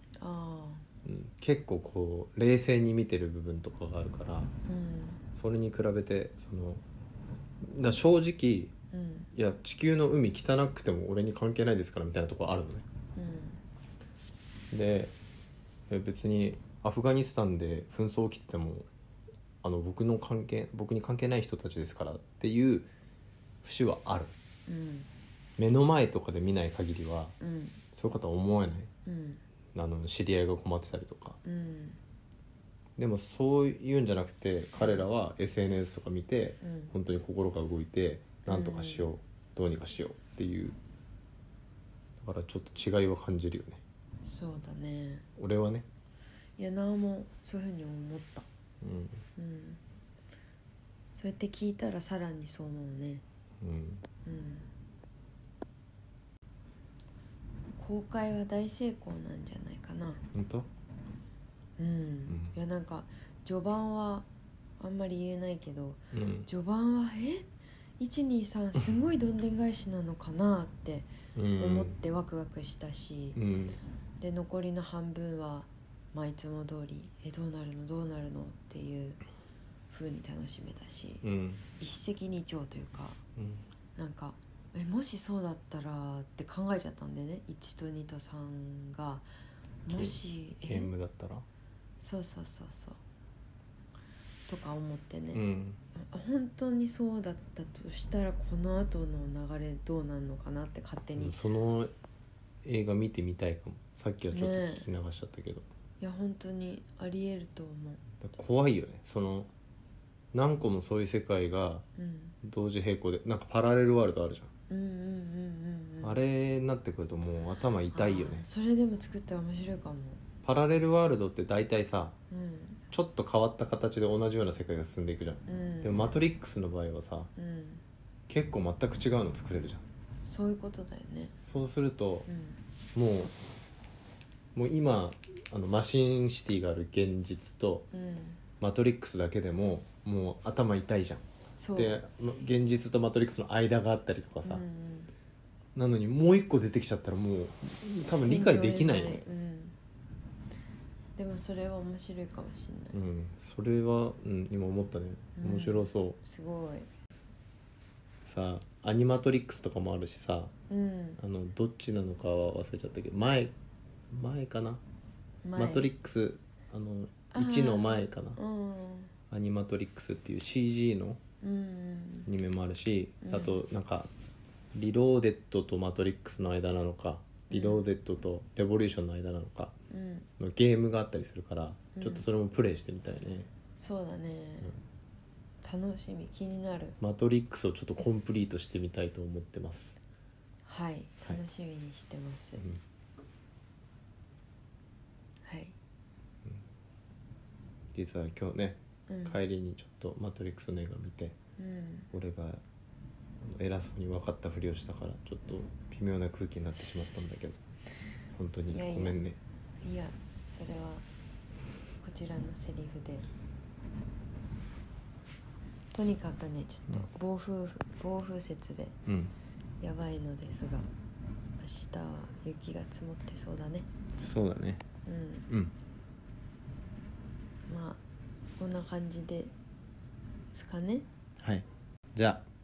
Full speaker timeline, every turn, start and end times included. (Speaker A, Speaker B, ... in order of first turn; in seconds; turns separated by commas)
Speaker A: 0.2-0.8, Speaker B: 1.1-4.5, Speaker A: 4.7-5.2, Speaker B: 5.3-6.8, Speaker B: 7.6-8.7, Speaker A: 8.9-9.3, Speaker B: 9.3-12.8, Speaker A: 13.2-13.6, Speaker B: 14.7-15.1, Speaker B: 15.9-18.9, Speaker B: 19.6-22.9, Speaker B: 23.6-24.4, Speaker A: 24.7-25.1, Speaker B: 25.6-27.4, Speaker A: 27.4-27.8, Speaker B: 27.9-28.9, Speaker A: 29.1-29.4, Speaker B: 29.8-31.4, Speaker A: 31.4-32.0, Speaker B: 33.0-40.8, Speaker A: 36.6-36.9, Speaker A: 38.5-39.1, Speaker B: 42.2-43.8, Speaker A: 44.2-45.2, Speaker B: 45.4-45.9, Speaker A: 46.6-48.5, Speaker B: 48.8-49.2, Speaker A: 49.4-49.8, Speaker A: 51.1-53.2, Speaker B: 53.6-54.0, Speaker A: 54.2-54.7, Speaker A: 57.8-60.2, Speaker B: 60.3-60.7, Speaker A: 61.8-64.3, Speaker B: 62.3-62.5, Speaker A: 64.8-73.4, Speaker B: 66.1-66.5, Speaker B: 71.3-72.0, Speaker B: 73.4-73.8, Speaker A: 74.2-79.2, Speaker A: 79.9-81.2, Speaker B: 81.2-81.7, Speaker A: 81.8-83.2, Speaker B: 83.4-83.7, Speaker A: 84.0-89.3, Speaker A: 89.8-90.9, Speaker B: 89.9-91.5, Speaker A: 92.0-93.0, Speaker A: 94.5-95.4, Speaker B: 95.3-95.8, Speaker A: 96.0-101.4, Speaker B: 101.2-101.9, Speaker B: 102.7-105.7, Speaker A: 104.3-104.9, Speaker A: 106.0-108.0, Speaker B: 108.2-109.5, Speaker B: 110.3-111.8, Speaker A: 112.0-112.4, Speaker B: 112.4-114.5, Speaker A: 114.7-116.2, Speaker B: 116.0-118.5, Speaker A: 117.9-120.2, Speaker B: 120.4-122.2, Speaker A: 122.3-122.8, Speaker B: 122.9-127.3, Speaker A: 125.5-126.1, Speaker A: 127.4-127.8, Speaker B: 128.3-129.8, Speaker A: 130.2-131.3, Speaker B: 131.4-132.3, Speaker A: 132.3-132.6, Speaker B: 132.9-133.3, Speaker B: 134.6-137.9, Speaker A: 137.9-138.4, Speaker B: 138.6-141.2, Speaker A: 141.6-142.0, Speaker B: 141.8-144.6, Speaker A: 144.4-145.1, Speaker B: 145.8-149.2, Speaker A: 148.2-149.8, Speaker A: 151.2-153.0, Speaker B: 152.9-156.2, Speaker A: 155.4-156.9, Speaker B: 158.3-160.5, Speaker A: 160.7-161.2, Speaker B: 161.2-163.5, Speaker B: 164.1-164.8, Speaker A: 165.4-165.9, Speaker B: 165.6-168.4, Speaker A: 167.3-169.1, Speaker B: 169.3-171.2, Speaker A: 171.4-172.3, Speaker B: 172.3-174.1, Speaker A: 173.2-173.6, Speaker B: 174.7-179.8, Speaker A: 177.5-177.9, Speaker A: 179.9-180.3, Speaker B: 180.4-183.5, Speaker A: 182.0-182.2, Speaker A: 183.8-184.7, Speaker A: 185.6-187.0, Speaker B: 187.0-190.0, Speaker A: 190.7-192.6, Speaker A: 195.4-195.8, Speaker B: 197.9-201.4, Speaker A: 199.1-199.4, Speaker A: 201.6-202.1, Speaker B: 202.1-202.6, Speaker B: 203.4-207.6, Speaker B: 208.4-209.4, Speaker A: 208.7-209.2, Speaker A: 209.8-211.1, Speaker A: 212.0-213.3, Speaker A: 215.9-219.0, Speaker B: 219.1-219.3, Speaker A: 219.8-220.9, Speaker A: 221.6-223.9, Speaker B: 224.2-224.8, Speaker A: 225.1-225.5, Speaker A: 227.7-228.0, Speaker A: 228.6-229.5, Speaker A: 230.5-231.1, Speaker B: 231.4-232.4